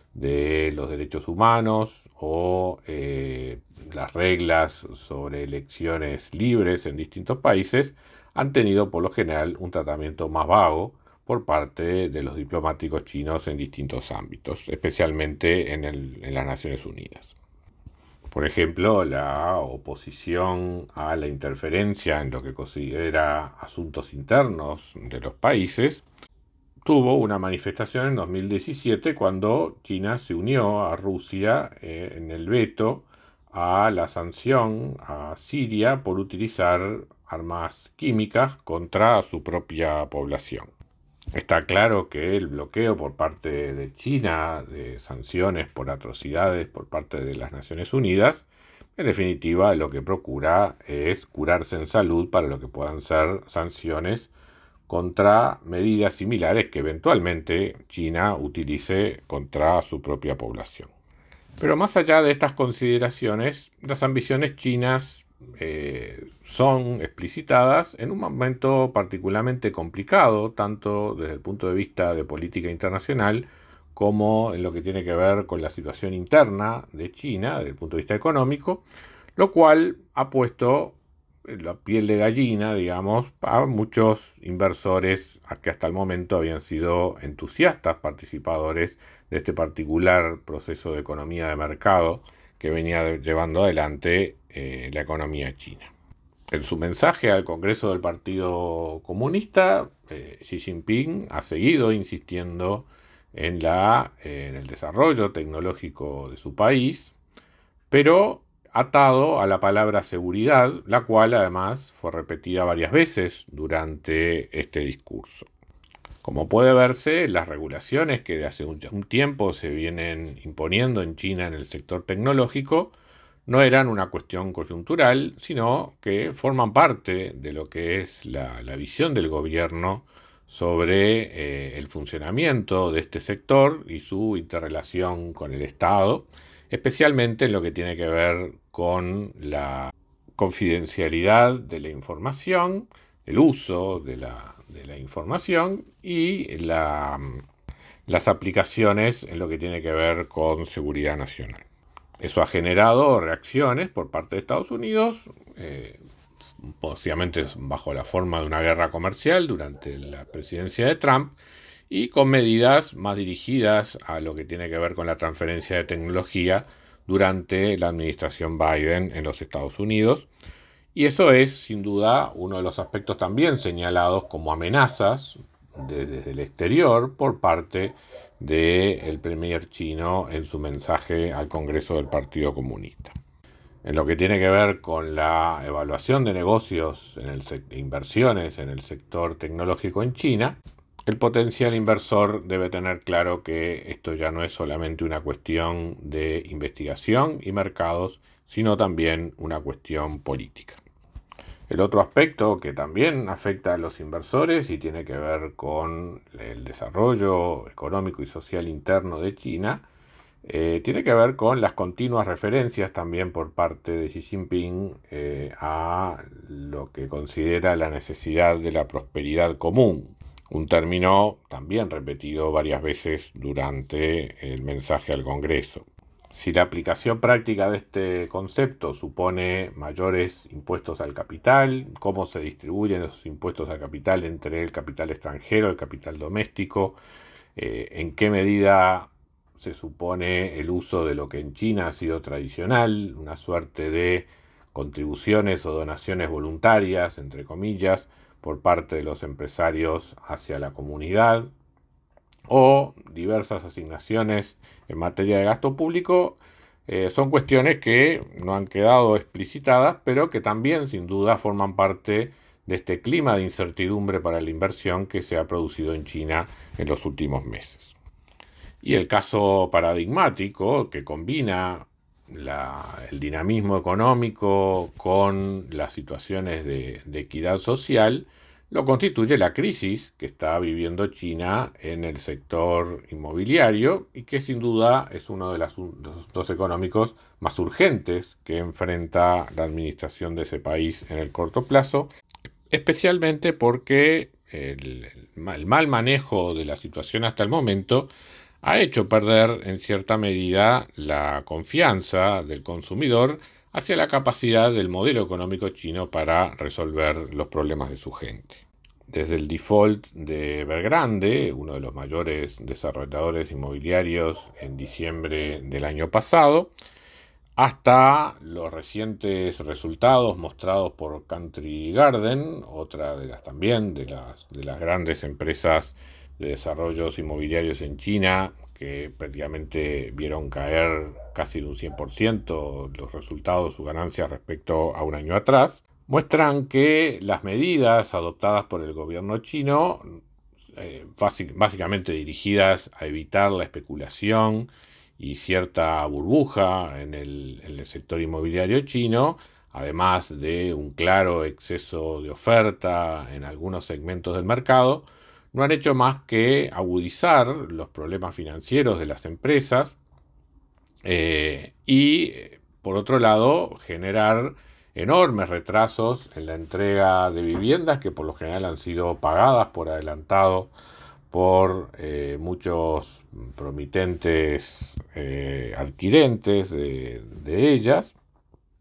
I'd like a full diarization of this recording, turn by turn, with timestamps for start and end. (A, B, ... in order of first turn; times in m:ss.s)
0:00.1-0:17.4 A
0:18.3-0:26.0 A
0:26.8-0:40.7 A
0:41.3-0:54.3 A
0:54.9-1:00.9 A
1:01.6-1:18.8 A
1:19.4-1:35.9 A
1:36.5-1:47.1 A
1:47.9-1:55.5 A
1:56.2-2:27.4 A
2:28.1-2:31.6 A
2:32.2-2:36.0 A
2:36.6-2:41.4 A
2:41.9-2:50.3 A
2:50.9-3:03.2 A
3:03.8-3:20.8 A
3:21.7-3:29.9 A
3:30.4-3:57.0 A
3:57.6-4:11.5 A
4:12.5-4:27.9 A
4:28.8-4:52.1 A
4:52.7-4:58.1 A
4:58.6-5:16.7 A
5:17.6-5:40.0 A
5:40.8-6:00.0 A
6:01.0-6:10.7 A
6:11.3-6:18.2 A